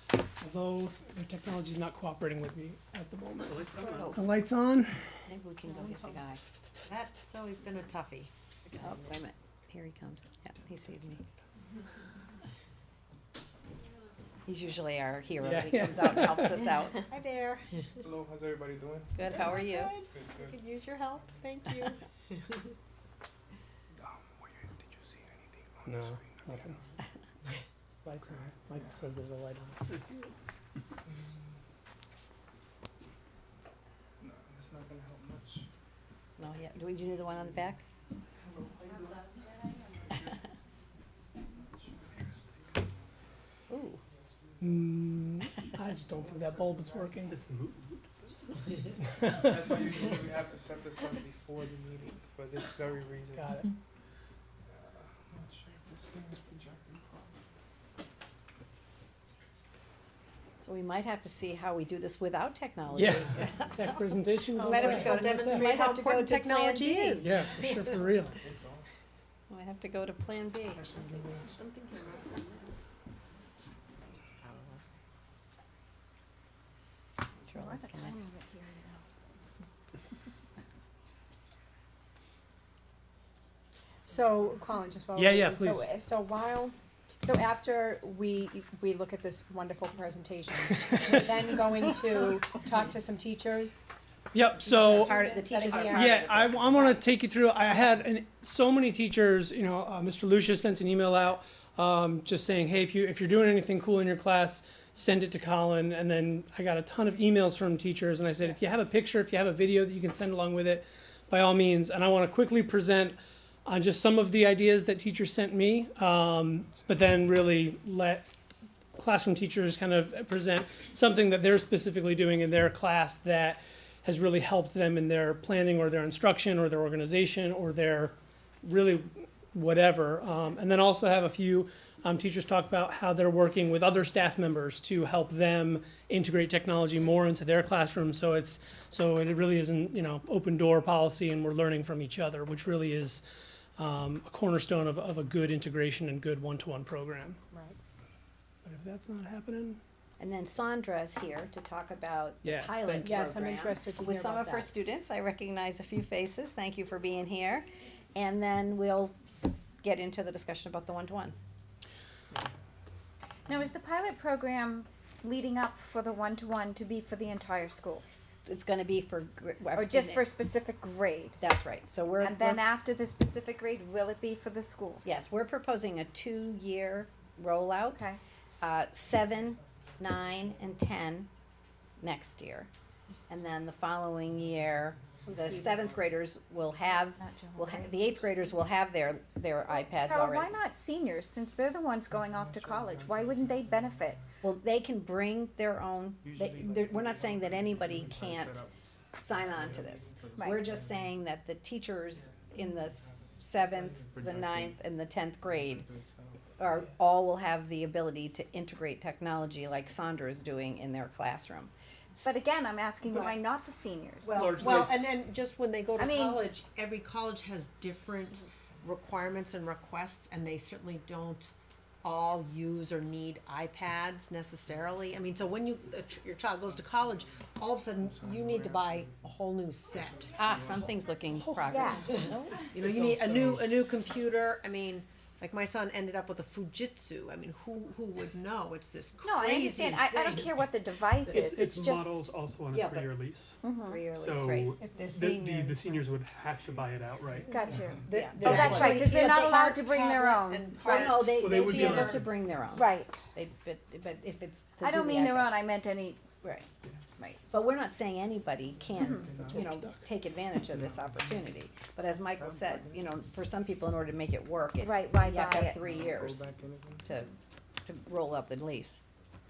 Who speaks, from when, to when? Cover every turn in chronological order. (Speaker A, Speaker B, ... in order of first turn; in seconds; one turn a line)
Speaker A: 0.4-3.6
Speaker B: 3.5-4.2
Speaker A: 4.1-4.9
Speaker C: 5.3-6.4
Speaker D: 5.7-6.2
Speaker D: 6.8-8.3
Speaker C: 8.7-11.2
Speaker C: 14.5-17.1
Speaker A: 15.4-16.6
Speaker D: 17.1-17.6
Speaker E: 18.0-19.2
Speaker C: 19.1-19.9
Speaker D: 19.3-22.0
Speaker E: 20.1-20.6
Speaker E: 24.0-26.9
Speaker A: 25.9-26.8
Speaker A: 28.1-29.9
Speaker E: 31.1-31.3
Speaker E: 34.2-35.7
Speaker C: 36.4-37.8
Speaker E: 38.4-39.2
Speaker F: 38.8-40.3
Speaker E: 41.5-42.9
Speaker C: 43.7-44.0
Speaker E: 44.1-44.8
Speaker A: 44.6-47.4
Speaker E: 46.2-47.3
Speaker B: 47.2-48.0
Speaker E: 49.4-53.5
Speaker A: 53.4-53.7
Speaker E: 54.7-57.4
Speaker C: 60.6-67.4
Speaker A: 62.9-65.8
Speaker D: 64.6-67.9
Speaker A: 67.2-68.4
Speaker E: 68.4-68.9
Speaker C: 69.5-71.0
Speaker E: 70.8-71.8
Speaker C: 77.5-78.2
Speaker F: 77.5-79.0
Speaker G: 84.0-93.8
Speaker A: 85.2-85.9
Speaker A: 94.3-118.3
Speaker C: 94.6-97.0
Speaker G: 94.7-96.2
Speaker A: 119.0-143.2
Speaker A: 143.8-147.4
Speaker G: 147.5-147.8
Speaker A: 148.7-149.8
Speaker C: 150.2-159.2
Speaker A: 152.4-153.3
Speaker G: 153.0-154.7
Speaker C: 159.8-161.4
Speaker F: 163.5-168.1
Speaker C: 168.4-170.3
Speaker F: 169.7-171.4
Speaker C: 171.4-172.7
Speaker F: 172.2-175.1
Speaker C: 175.1-178.1
Speaker F: 177.9-178.2
Speaker C: 178.6-181.3
Speaker C: 182.0-182.7
Speaker C: 183.3-190.6
Speaker G: 185.2-185.9
Speaker F: 187.0-188.7
Speaker F: 189.9-194.2
Speaker E: 192.1-194.3
Speaker C: 194.4-198.6
Speaker E: 196.2-201.2
Speaker C: 199.2-205.9
Speaker F: 200.3-200.7
Speaker E: 202.1-204.8
Speaker E: 205.4-206.6
Speaker C: 206.6-211.7
Speaker F: 212.2-214.7
Speaker D: 214.3-221.5
Speaker A: 214.3-215.1
Speaker F: 216.0-216.4
Speaker D: 222.0-230.3
Speaker E: 226.6-229.4
Speaker E: 229.9-231.0
Speaker C: 230.3-233.6
Speaker F: 231.7-232.2
Speaker D: 232.7-240.5
Speaker F: 239.2-242.2
Speaker B: 241.3-247.5
Speaker D: 242.7-243.0
Speaker F: 243.6-244.1
Speaker C: 243.8-244.8
Speaker G: 244.8-246.0
Speaker F: 247.5-251.2
Speaker E: 247.7-248.1
Speaker G: 248.1-249.1
Speaker C: 248.1-249.8
Speaker D: 248.3-252.3
Speaker C: 250.8-255.7
Speaker B: 251.3-252.3
Speaker F: 252.7-253.2
Speaker F: 254.8-256.2
Speaker C: 256.4-256.7
Speaker C: 257.5-266.5
Speaker E: 258.9-259.7
Speaker F: 258.9-259.3
Speaker A: 259.5-260.0
Speaker E: 260.7-261.5
Speaker E: 262.3-263.2
Speaker F: 264.8-265.9
Speaker E: 265.8-267.1
Speaker C: 267.1-267.3
Speaker C: 267.8-269.0